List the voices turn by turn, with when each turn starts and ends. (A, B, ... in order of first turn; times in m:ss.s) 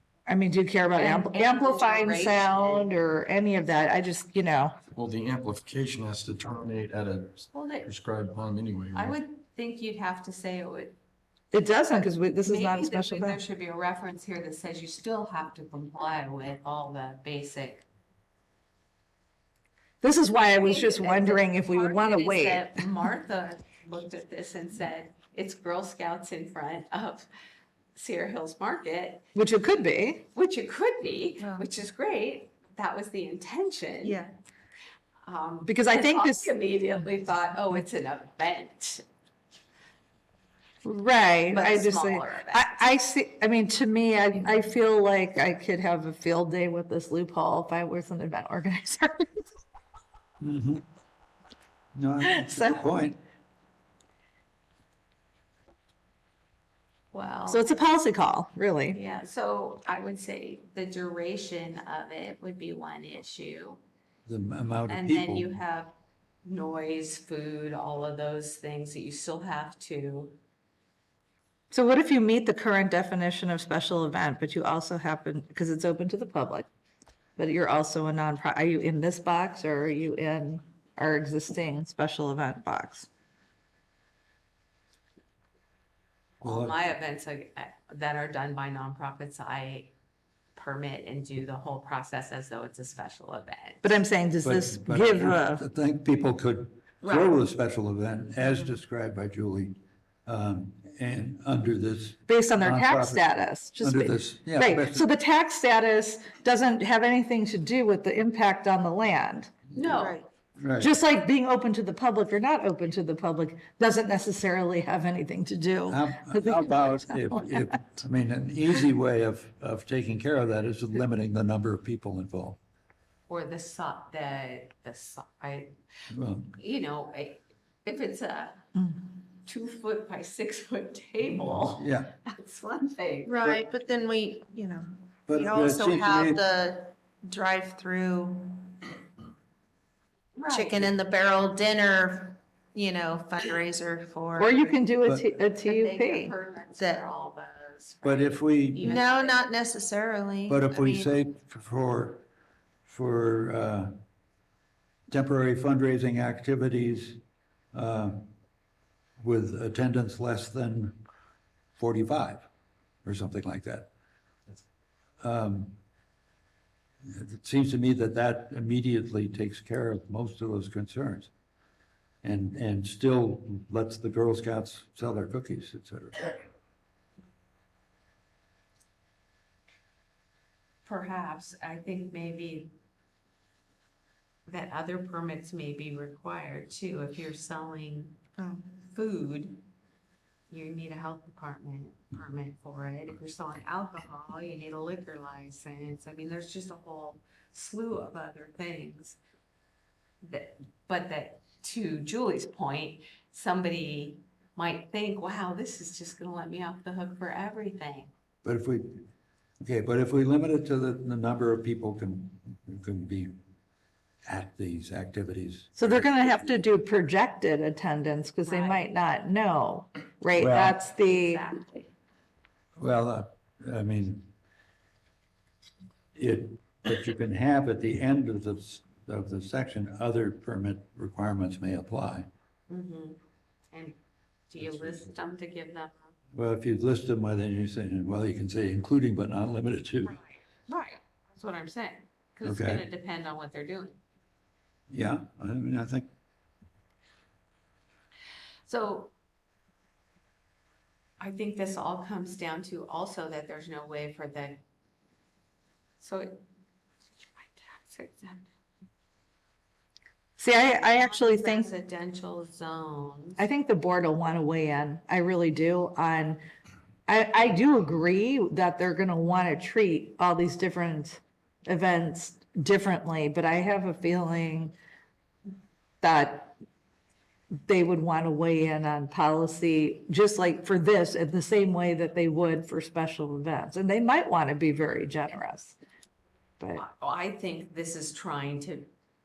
0:00.3-0:04.8 A
0:00.9-0:02.9 B
0:04.9-0:09.2 C
0:07.5-0:07.9 B
0:08.9-0:11.0 B
0:11.5-0:13.4 A
0:12.4-0:17.8 B
0:20.0-0:22.8 A
0:20.5-0:27.3 B
0:28.0-0:29.3 B
0:29.3-0:30.2 A
0:30.3-0:34.2 B
0:34.0-0:34.3 D
0:35.2-0:39.0 B
0:35.6-0:36.5 A
0:40.8-0:49.3 A
0:41.5-0:42.8 B
0:50.4-0:50.8 E
0:52.0-0:53.2 E
0:52.2-0:52.7 A
0:57.1-0:57.8 B
0:57.5-0:59.0 A
0:58.9-1:03.8 B
1:04.2-1:05.5 E
1:04.9-1:05.9 B
1:06.4-1:10.4 B
1:11.7-1:16.7 A
1:17.4-1:23.1 A
1:26.4-1:29.9 B
1:26.4-1:26.8 E
1:30.6-1:34.0 B
1:33.8-1:35.6 A
1:34.4-1:39.7 E
1:40.2-1:43.2 E
1:42.3-1:49.5 A
1:43.8-1:45.0 E
1:49.7-1:50.2 B
1:49.9-1:50.2 D
1:50.6-1:50.9 E
1:50.8-1:57.7 A
1:55.9-2:02.6 E
2:03.3-2:05.8 B
2:06.1-2:06.6 E
2:06.6-2:08.6 B
2:09.4-2:13.4 B
2:11.6-2:12.2 E
2:13.2-2:18.8 D
2:15.3-2:16.4 E
2:20.4-2:20.9 B
2:20.5-2:24.8 D
2:24.4-2:26.3 A
2:25.0-2:25.3 E
2:25.6-2:29.5 B
2:26.8-2:27.0 D
2:28.0-2:29.0 E
2:28.8-2:31.1 D
2:30.5-2:32.2 E
2:32.9-2:33.9 E
2:35.1-2:37.2 E
2:37.7-2:38.3 E
2:39.2-2:41.0 E
2:41.8-2:42.5 E
2:43.0-2:43.9 E
2:45.2-2:45.8 E
2:47.1-2:51.3 E
2:52.2-2:56.3 E
3:00.8-3:02.7 B
3:04.5-3:08.2 B
3:08.4-3:08.6 D
3:08.9-3:09.6 B
3:10.5-3:19.2 B
3:20.2-3:28.1 B
3:28.4-3:29.1 E
3:29.6-3:33.3 E
3:34.2-3:36.1 E
3:35.8-3:41.4 A
3:38.4-3:38.9 B
3:40.4-3:40.8 E
3:41.0-3:41.9 B
3:42.8-3:44.3 E
3:46.2-3:52.3 E
3:52.7-3:53.2 B
3:54.5-3:56.0 B
3:54.6-3:55.0 E
3:56.3-4:00.2 E
4:00.7-4:04.0 B
4:02.4-4:02.8 E
4:04.9-4:06.1 E
4:08.7-4:09.1 B
4:11.2-4:14.6 B
4:16.0-4:16.4 B
4:17.4-4:18.5 B
4:20.4-4:21.7 A
4:21.0-4:23.4 B
4:23.4-4:26.4 A
4:27.1-4:34.8 A
4:36.0-4:36.6 A
4:37.7-4:45.8 A
4:46.8-4:48.9 B